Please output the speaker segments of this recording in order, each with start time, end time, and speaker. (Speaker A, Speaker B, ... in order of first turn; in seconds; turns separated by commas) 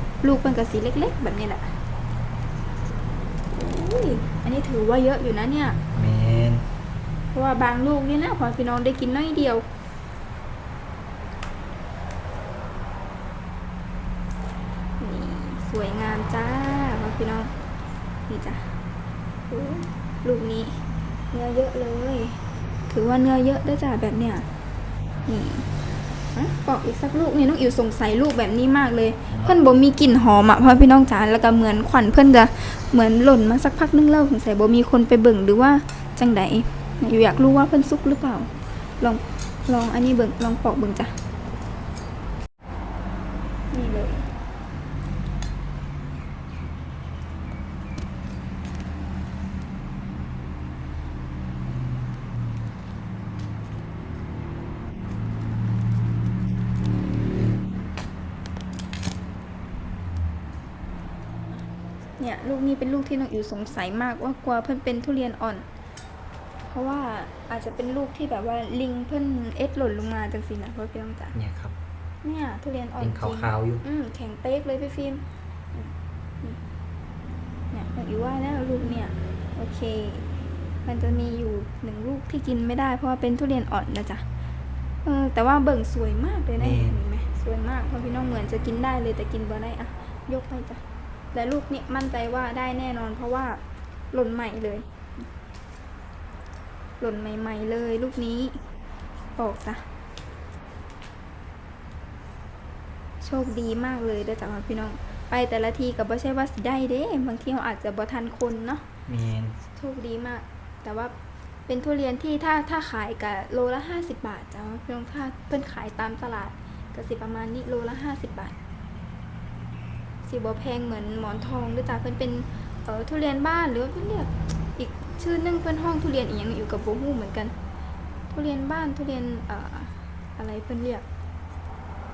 Speaker A: 0.2-1.7, Speaker A: 3.5-5.8, Speaker B: 5.9-6.7, Speaker A: 7.3-9.7, Speaker A: 15.0-17.5, Speaker A: 18.3-18.7, Speaker A: 19.5-20.8, Speaker A: 21.3-24.5, Speaker A: 25.3-25.7, Speaker A: 26.3-41.1, Speaker A: 43.7-44.2, Speaker A: 62.2-65.7, Speaker A: 66.7-71.3, Speaker B: 71.3-71.7, Speaker A: 72.2-75.2, Speaker B: 73.0-73.8, Speaker A: 77.7-80.2, Speaker A: 80.8-84.2, Speaker A: 85.0-90.8, Speaker B: 86.6-87.0, Speaker A: 91.3-93.6, Speaker A: 94.1-94.9, Speaker A: 97.0-98.6, Speaker A: 99.4-99.8, Speaker A: 103.2-108.8, Speaker B: 109.1-109.5, Speaker A: 109.8-111.1, Speaker A: 111.7-118.5, Speaker A: 120.2-127.5, Speaker A: 128.3-131.1